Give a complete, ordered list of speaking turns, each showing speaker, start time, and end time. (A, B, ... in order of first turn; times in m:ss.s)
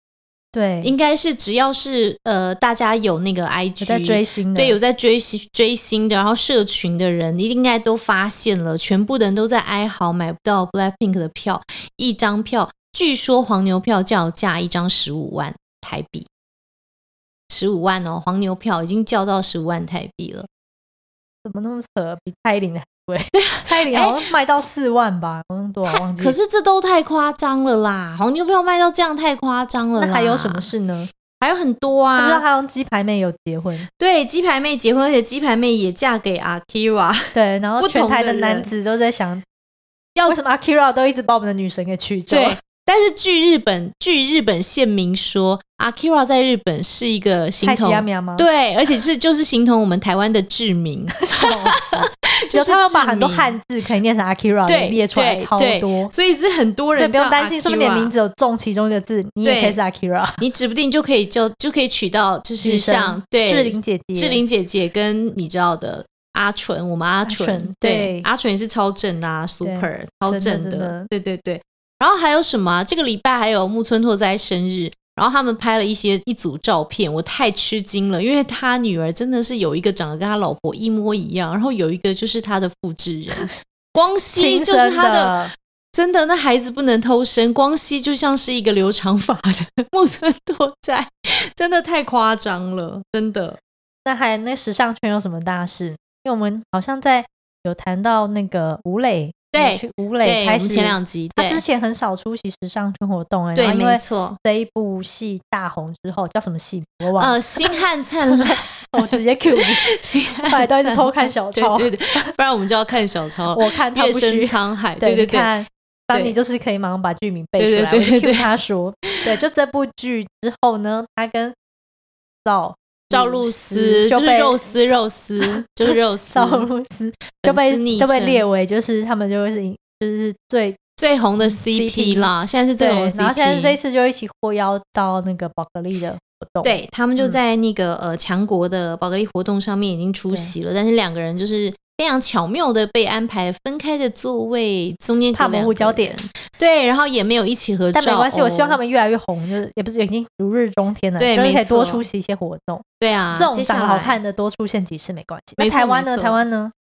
0:00.5-0:01.0 A
0:00.8-0:16.3 B
0:03.8-0:04.8 A
0:17.5-0:20.5 B
0:21.4-0:26.4 A
0:23.3-0:24.2 B
0:25.9-0:30.7 B
0:30.0-0:31.1 A
0:31.4-0:32.4 B
0:32.2-0:33.9 A
0:34.0-0:38.7 B
0:37.3-0:39.4 A
0:40.3-0:42.6 A
0:42.3-0:53.6 B
0:47.6-0:48.5 A
0:51.2-0:56.1 A
0:54.7-0:58.1 B
0:56.9-1:00.4 A
0:59.4-0:59.8 B
1:00.4-1:25.4 B
1:02.6-1:04.4 A
1:07.3-1:08.3 A
1:09.6-1:11.1 A
1:24.4-1:25.5 A
1:25.9-1:33.6 B
1:34.1-1:49.9 A
1:39.5-1:41.6 B
1:43.6-1:44.4 B
1:47.2-1:55.5 B
1:50.4-1:52.0 A
1:53.5-2:01.6 A
1:56.1-1:56.4 B
1:57.6-1:58.5 B
2:02.4-2:04.7 A
2:03.1-2:06.7 B
2:06.3-2:10.8 A
2:07.4-2:08.4 B
2:11.0-2:13.8 B
2:11.4-2:17.4 A
2:16.6-2:28.8 B
2:25.3-2:26.2 A
2:27.9-2:36.7 A
2:31.2-2:32.0 B
2:33.0-2:34.2 B
2:35.6-2:36.4 B